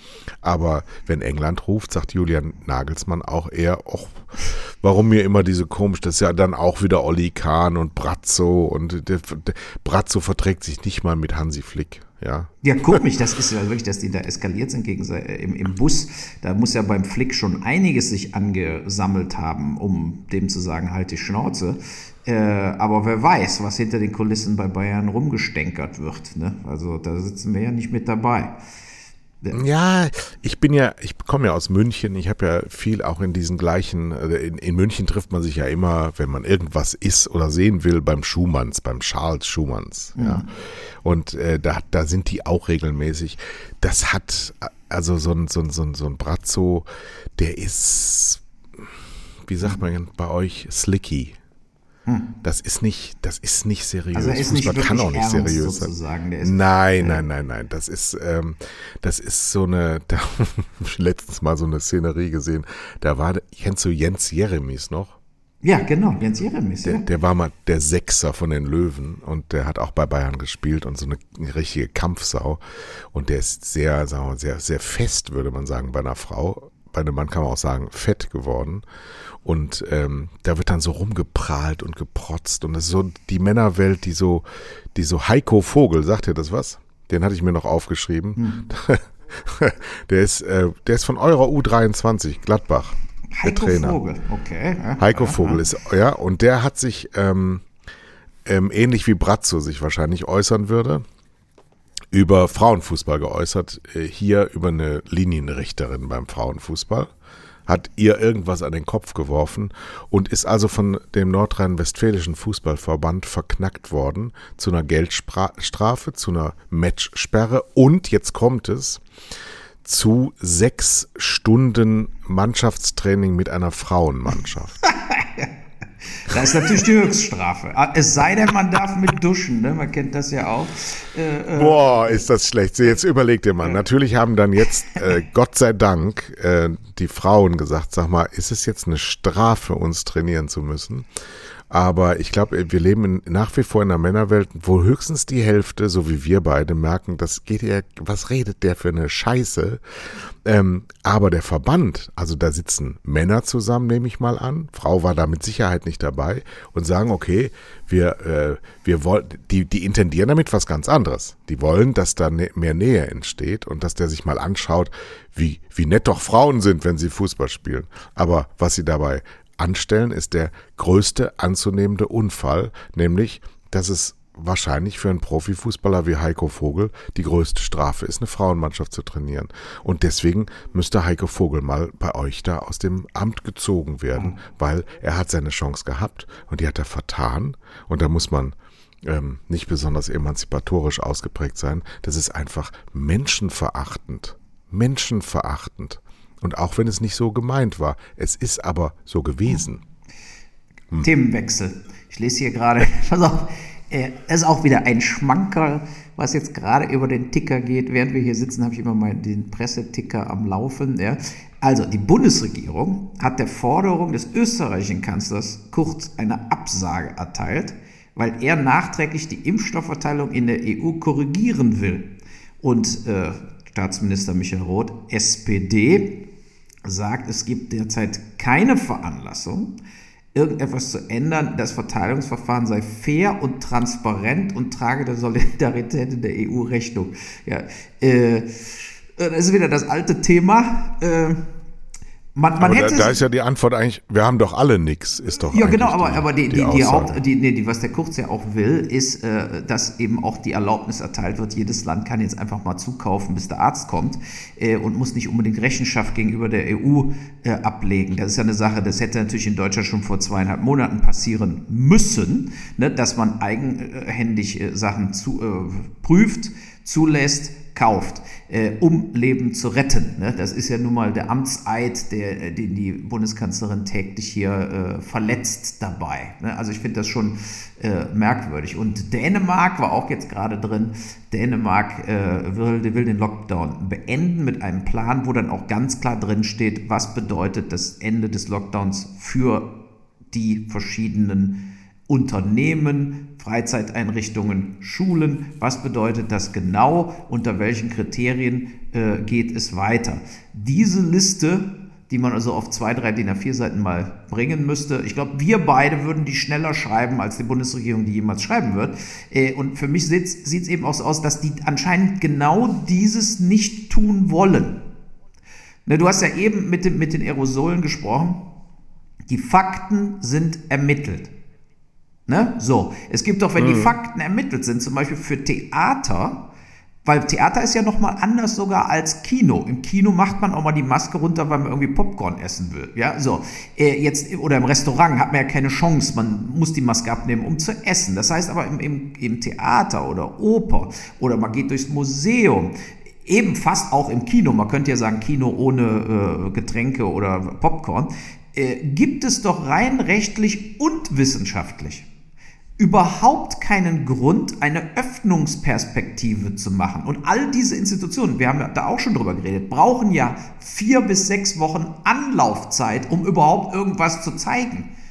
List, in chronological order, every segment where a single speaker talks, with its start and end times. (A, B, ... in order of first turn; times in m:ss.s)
0:00.4-0:13.0 A
0:12.6-0:28.6 B
0:29.5-0:40.5 A
0:40.2-0:40.5 B
0:41.0-0:48.9 A
0:49.5-0:51.4 A
0:52.1-0:52.3 B
0:52.4-1:05.2 A
0:54.1-0:57.2 B
1:05.6-1:07.1 B
1:06.8-1:12.6 A
1:13.1-1:18.8 A
1:19.4-1:34.0 A
1:28.4-1:28.7 B
1:33.3-1:35.6 B
1:35.0-1:37.7 A
1:38.5-1:41.0 A
1:42.1-1:47.1 A
1:47.7-1:59.0 A
1:59.8-2:04.8 A
2:04.9-2:05.5 B
2:06.1-2:12.2 B
2:06.3-2:06.8 A
2:11.6-2:21.1 A
2:21.7-2:29.8 A
2:30.4-3:19.8 A
3:21.0-3:46.2 B
3:46.8-3:49.7 B
3:50.3-4:01.5 B
4:02.4-4:03.2 B
4:02.6-4:07.2 A
4:05.4-4:49.8 B
4:50.3-5:14.8 B
5:15.9-5:18.5 B
5:19.3-5:21.3 B
5:22.3-5:26.4 B
5:23.6-5:23.9 A
5:27.0-5:42.7 B
5:43.2-5:52.1 B
5:52.8-6:04.9 B